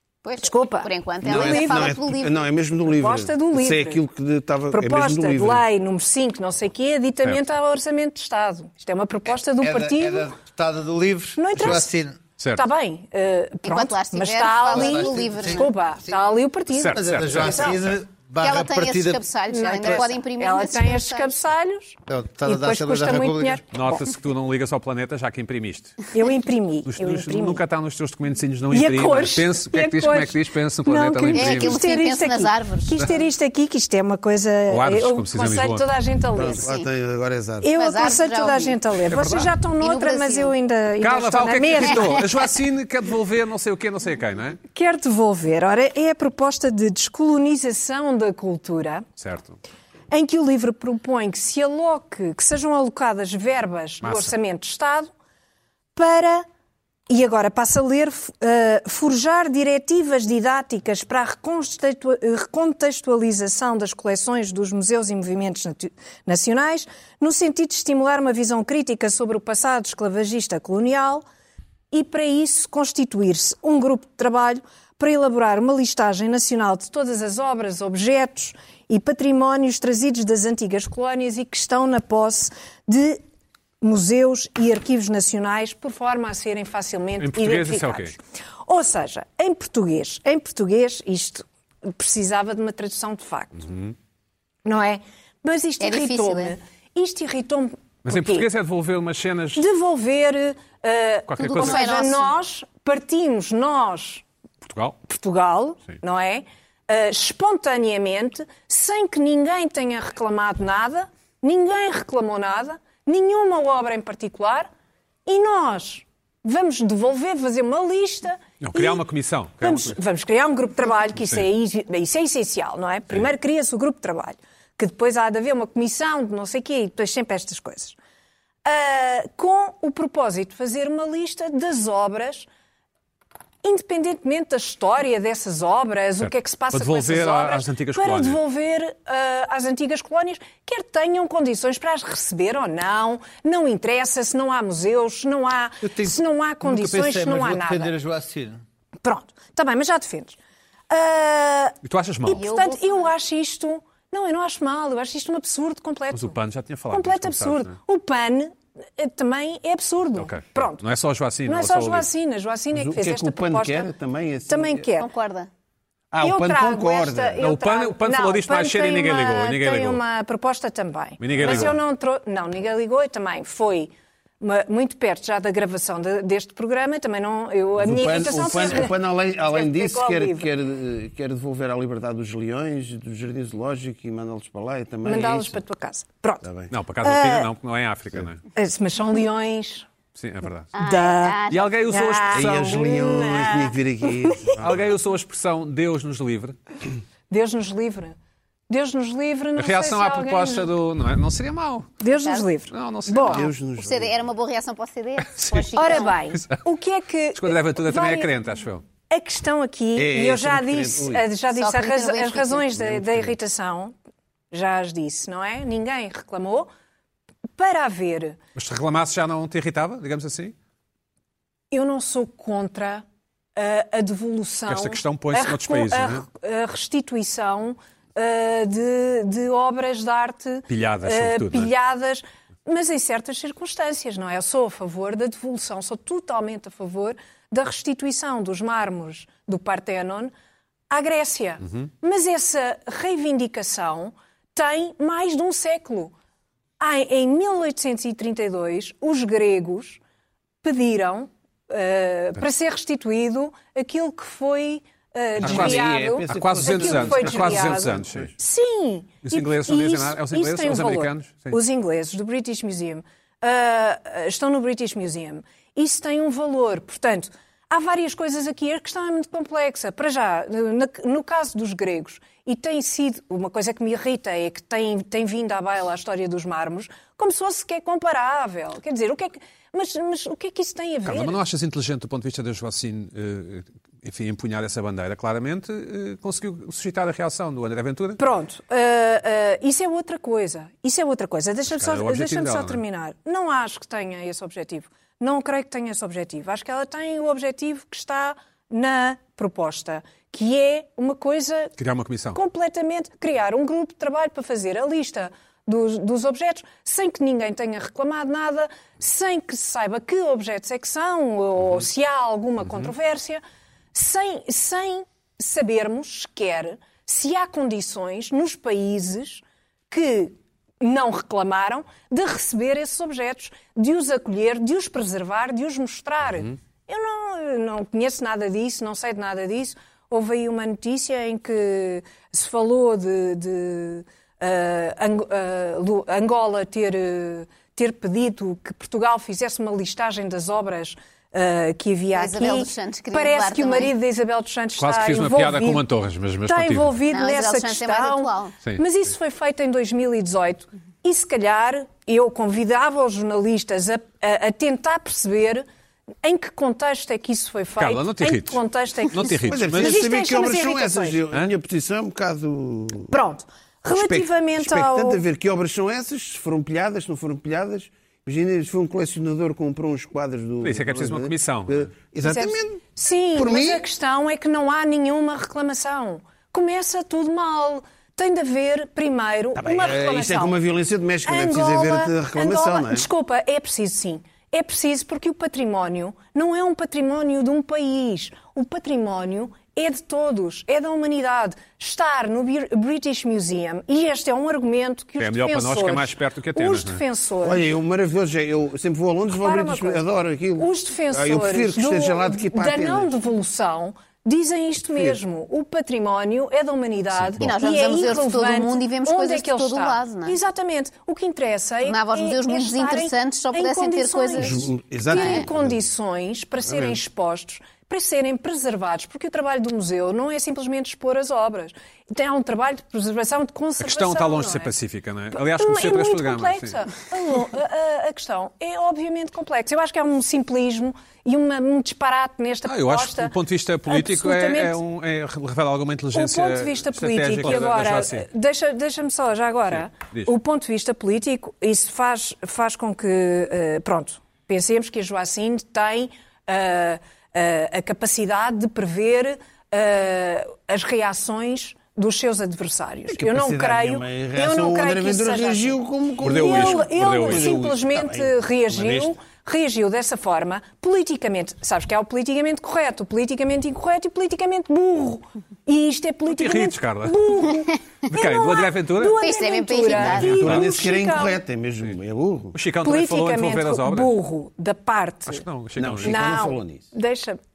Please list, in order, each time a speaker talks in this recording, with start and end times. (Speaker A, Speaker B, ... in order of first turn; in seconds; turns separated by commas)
Speaker A: 0.2-2.4, Speaker B: 0.4-1.9, Speaker C: 1.2-5.7, Speaker B: 2.9-4.0, Speaker B: 4.7-10.3, Speaker D: 9.6-12.2, Speaker B: 11.4-11.9, Speaker E: 12.4-12.7, Speaker B: 12.6-17.8, Speaker A: 13.6-15.7, Speaker D: 14.7-16.1, Speaker E: 16.7-18.0, Speaker D: 16.9-19.2, Speaker A: 18.4-21.3, Speaker B: 19.5-24.1, Speaker D: 22.1-23.6, Speaker E: 23.7-26.1, Speaker B: 26.1-27.6, Speaker E: 26.9-31.8, Speaker B: 28.7-36.7, Speaker A: 31.3-33.2, Speaker E: 34.7-35.9, Speaker C: 36.3-37.7, Speaker A: 36.5-36.9, Speaker B: 37.6-42.3, Speaker A: 37.8-38.8, Speaker E: 39.0-39.5, Speaker A: 39.8-40.5, Speaker E: 41.0-44.6, Speaker B: 44.7-49.1, Speaker E: 49.2-49.6, Speaker B: 50.1-55.1, Speaker E: 54.0-54.4, Speaker B: 56.0-56.5, Speaker B: 57.1-71.3, Speaker B: 71.9-83.2, Speaker B: 83.8-93.7, Speaker E: 87.2-88.2, Speaker E: 93.6-94.0, Speaker B: 94.7-98.5, Speaker A: 95.8-96.6, Speaker E: 98.0-99.7, Speaker B: 99.6-104.2, Speaker E: 101.3-101.9, Speaker A: 101.4-102.3, Speaker E: 104.7-105.0, Speaker B: 105.1-114.7, Speaker B: 115.3-119.0, Speaker E: 118.6-120.0, Speaker B: 119.6-128.0, Speaker E: 121.2-121.5, Speaker B: 128.7-132.5, Speaker B: 133.6-147.9, Speaker E: 136.2-138.4, Speaker D: 145.8-148.6, Speaker B: 149.0-150.4, Speaker B: 150.9-156.4, Speaker E: 151.8-152.4, Speaker A: 152.3-153.1, Speaker E: 156.1-157.8, Speaker B: 156.9-160.8, Speaker E: 160.2-162.1, Speaker B: 161.5-163.9, Speaker C: 162.7-164.9, Speaker B: 164.5-165.1, Speaker A: 165.0-165.5, Speaker C: 166.1-167.5, Speaker B: 166.2-180.5, Speaker E: 167.4-170.0, Speaker E: 171.2-171.8, Speaker C: 171.4-171.8, Speaker C: 177.8-185.6, Speaker B: 185.0-186.5, Speaker C: 186.4-186.7, Speaker E: 186.7-188.4, Speaker B: 187.0-187.5, Speaker B: 188.6-189.9, Speaker E: 190.2-190.7, Speaker A: 190.8-191.8, Speaker B: 190.8-191.4, Speaker E: 191.5-192.8, Speaker B: 191.9-194.5, Speaker C: 192.3-194.8, Speaker E: 194.6-196.6, Speaker B: 197.3-198.2, Speaker B: 198.7-200.7, Speaker E: 199.6-201.9, Speaker B: 202.0-203.5, Speaker A: 202.2-202.5, Speaker E: 202.7-203.5, Speaker C: 203.3-204.2, Speaker A: 203.8-206.2, Speaker E: 205.3-206.6, Speaker B: 205.8-208.3, Speaker E: 207.3-208.8, Speaker B: 209.1-213.9, Speaker C: 209.9-211.3, Speaker A: 211.5-212.7, Speaker E: 212.8-213.3, Speaker B: 214.5-216.7, Speaker B: 217.6-218.4, Speaker E: 218.6-220.6, Speaker B: 221.7-223.0, Speaker B: 223.6-240.3, Speaker E: 224.7-226.2, Speaker E: 230.7-231.7, Speaker B: 240.9-246.1, Speaker B: 246.8-250.0, Speaker B: 250.6-281.4, Speaker C: 255.4-258.3, Speaker E: 255.4-258.3, Speaker E: 259.2-261.6, Speaker E: 281.1-288.2, Speaker B: 288.2-301.7, Speaker E: 291.7-292.8, Speaker E: 301.8-302.4, Speaker B: 302.3-313.4, Speaker B: 313.9-345.9, Speaker A: 342.1-343.9, Speaker E: 344.8-347.0, Speaker B: 346.4-355.6, Speaker A: 347.1-348.5, Speaker B: 356.2-361.2, Speaker E: 357.8-360.0, Speaker C: 359.5-363.1, Speaker B: 363.1-365.2, Speaker C: 363.9-372.8, Speaker E: 370.6-371.9, Speaker B: 372.2-380.6, Speaker C: 373.4-373.8, Speaker C: 379.6-383.1, Speaker B: 381.3-397.6, Speaker E: 395.2-397.0, Speaker C: 397.4-403.1, Speaker B: 399.3-400.0, Speaker B: 400.6-424.7, Speaker A: 407.4-410.4, Speaker A: 411.8-415.5, Speaker C: 414.4-415.7, Speaker C: 416.7-417.0, Speaker E: 423.8-426.8, Speaker B: 425.4-433.3, Speaker E: 432.7-438.3, Speaker B: 433.9-434.8, Speaker B: 436.1-471.4, Speaker E: 439.7-440.3, Speaker C: 453.1-459.1, Speaker E: 456.2-457.7, Speaker E: 466.3-467.3, Speaker E: 468.1-469.2, Speaker A: 469.2-470.5, Speaker E: 470.1-470.7, Speaker C: 470.1-472.6, Speaker E: 472.5-474.1, Speaker B: 472.8-475.4, Speaker E: 475.3-476.4, Speaker C: 475.8-476.9, Speaker B: 476.0-477.4